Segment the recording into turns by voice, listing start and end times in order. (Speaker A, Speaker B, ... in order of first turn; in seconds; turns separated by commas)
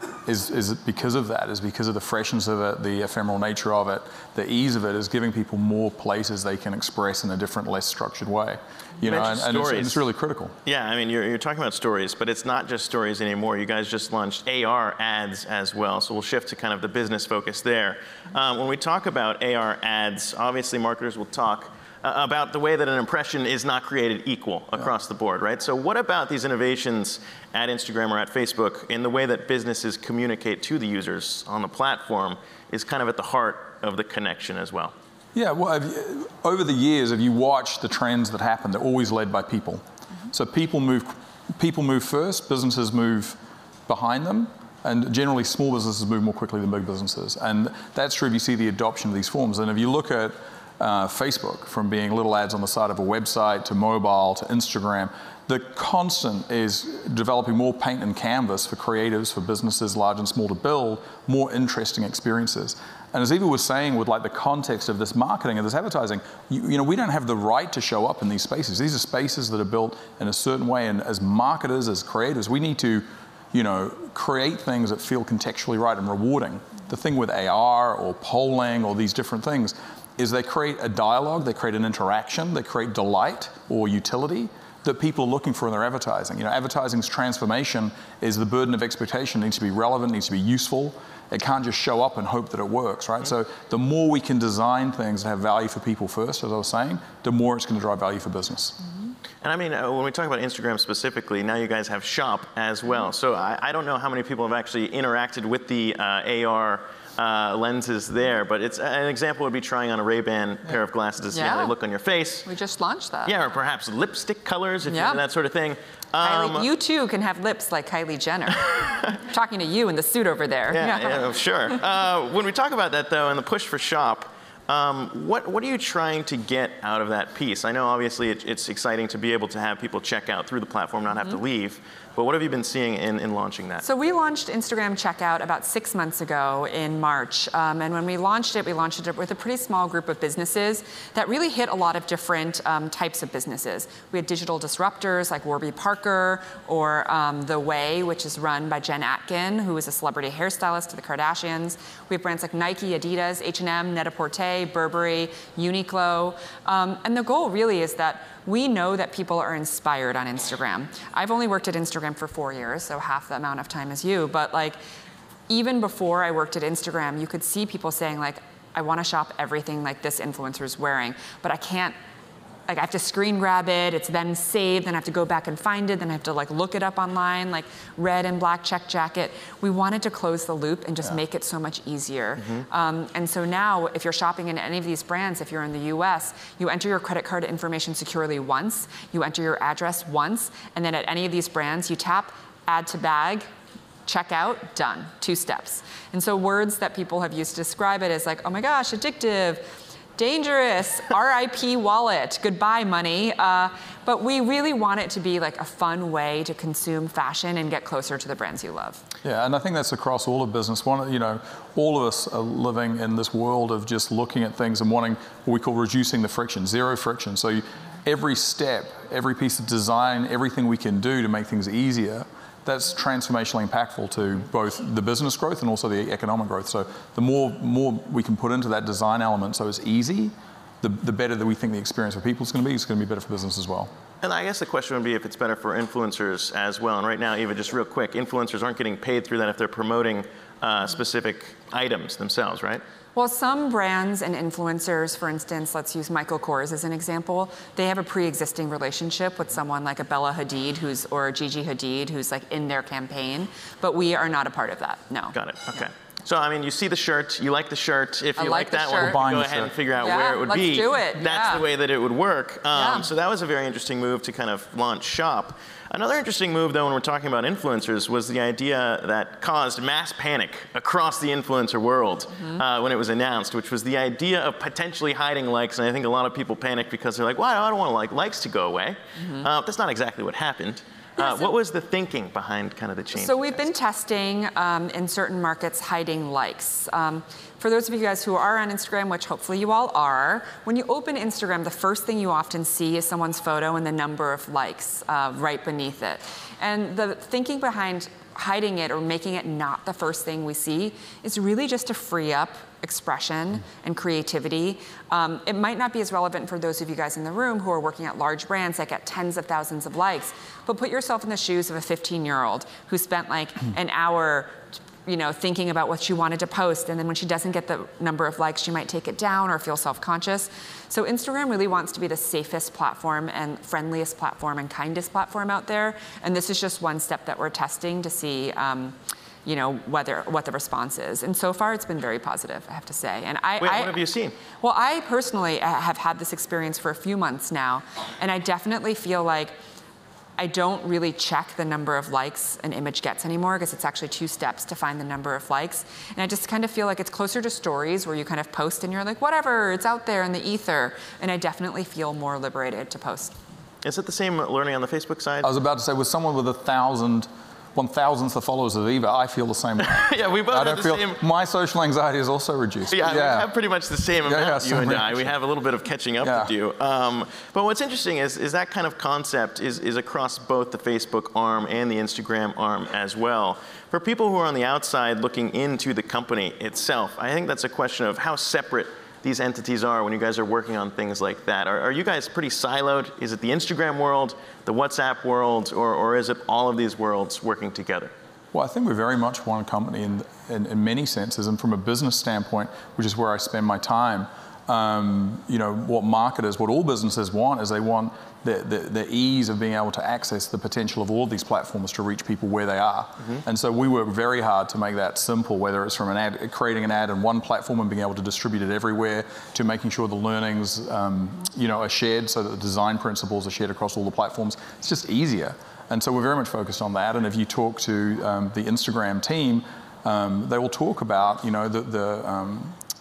Speaker A: 0.3-10.5, Speaker B: 9.0-10.0, Speaker B: 10.7-34.9, Speaker A: 35.4-98.8, Speaker B: 99.4-112.5, Speaker C: 111.3-111.8, Speaker C: 112.5-113.3, Speaker B: 113.2-116.7, Speaker C: 114.9-115.2, Speaker C: 116.2-121.3, Speaker B: 120.7-133.8, Speaker C: 133.8-164.8, Speaker C: 165.5-172.0, Speaker C: 172.7-193.4, Speaker C: 194.1-199.7, Speaker C: 200.2-209.0, Speaker A: 209.2-233.9, Speaker B: 234.2-242.8, Speaker C: 243.1-255.4, Speaker B: 255.3-283.6, Speaker C: 258.4-259.2, Speaker A: 259.0-259.8, Speaker C: 260.0-261.7, Speaker C: 262.7-263.1, Speaker C: 281.2-281.5, Speaker C: 283.1-334.0, Speaker B: 333.6-334.4, Speaker C: 334.6-339.6, Speaker C: 340.4-353.4, Speaker B: 353.8-355.5, Speaker A: 355.4-363.5, Speaker B: 359.8-361.2, Speaker B: 362.9-388.1, Speaker A: 364.2-365.3, Speaker A: 366.2-366.5, Speaker A: 388.5-422.8